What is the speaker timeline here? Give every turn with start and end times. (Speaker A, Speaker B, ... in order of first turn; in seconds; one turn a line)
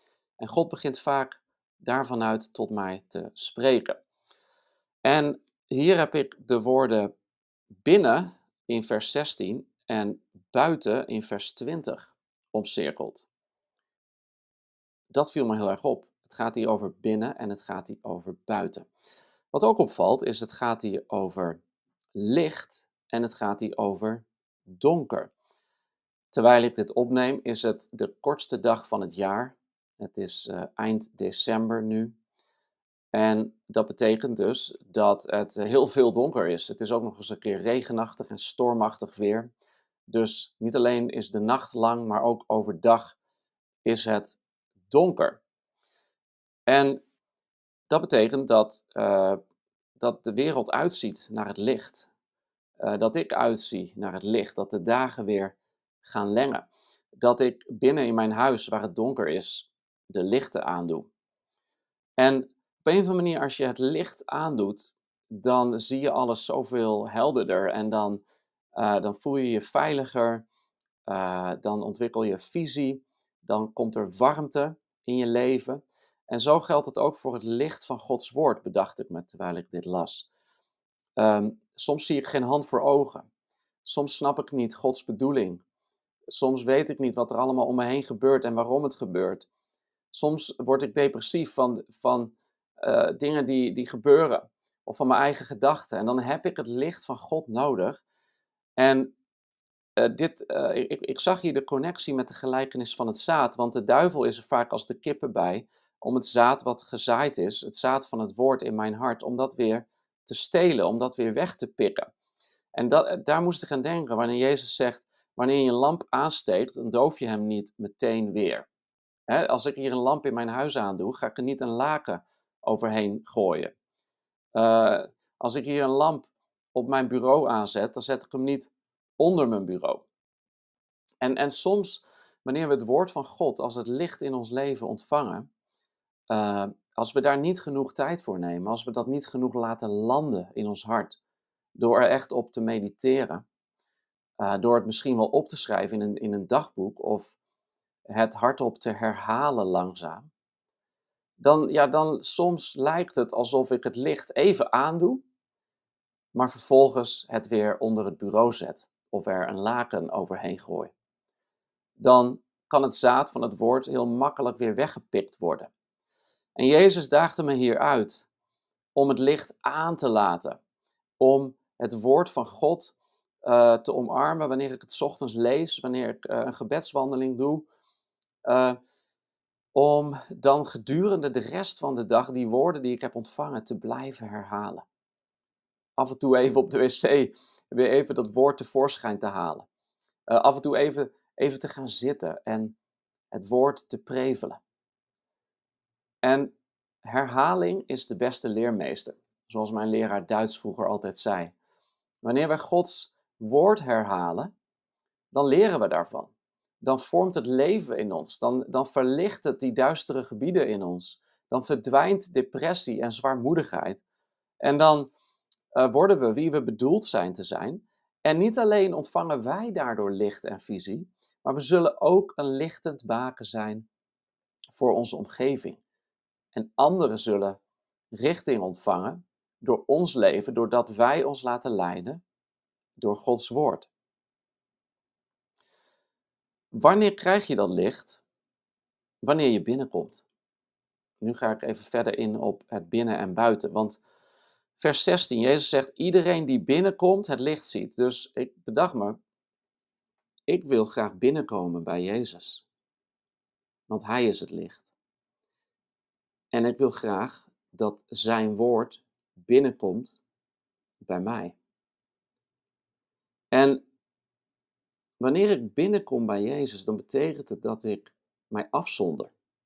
Speaker A: 0.4-4.0
Speaker A: 5.0-7.1
Speaker A: 7.8-13.3
Speaker A: 15.1-18.9
Speaker A: 19.5-21.6
Speaker A: 22.1-25.3
Speaker A: 26.3-32.1
Speaker A: 33.1-39.5
Speaker A: 40.1-43.2
Speaker A: 43.9-44.4
Speaker A: 44.9-45.4
Speaker A: 46.7-47.0
Speaker A: 47.9-49.4
Speaker A: 50.0-52.1
Speaker A: 52.8-61.1
Speaker A: 62.2-68.2
Speaker A: 68.8-70.5
Speaker A: 71.1-80.3
Speaker A: 81.2-83.3
Speaker A: 83.8-85.6
Speaker A: 86.3-89.5
Speaker A: 90.1-98.0
Speaker A: 98.8-99.1
Speaker A: 100.0-112.1
Speaker A: 112.7-118.7
Speaker A: 119.3-123.7
Speaker A: 124.5-130.1
Speaker A: 131.2-135.5
Speaker A: 136.3-141.2
Speaker A: 141.8-143.4
Speaker A: 144.4-147.4
Speaker A: 148.1-150.3
Speaker A: 151.4-155.2
Speaker A: 156.3-160.9
Speaker A: 162.0-165.7
Speaker A: 166.6-168.3
Speaker A: 168.9-170.6
Speaker A: 171.2-177.7
Speaker A: 178.4-178.8
Speaker A: 179.8-184.8
Speaker A: 186.0-189.7
Speaker A: 190.3-192.8
Speaker A: 193.3-194.6
Speaker A: 196.2-196.5
Speaker A: 197.0-201.5
Speaker A: 202.2-204.5
Speaker A: 205.3-214.0
Speaker A: 214.6-215.1
Speaker A: 215.8-223.9
Speaker A: 224.7-225.8
Speaker A: 226.5-227.6
Speaker A: 228.1-232.2
Speaker A: 233.0-233.9
Speaker A: 236.7-238.2
Speaker A: 239.2-240.3
Speaker A: 241.2-244.0
Speaker A: 244.8-249.2
Speaker A: 250.5-252.7
Speaker A: 253.9-254.9
Speaker A: 256.5-260.2
Speaker A: 261.0-261.6
Speaker A: 263.5-263.8
Speaker A: 265.2-269.3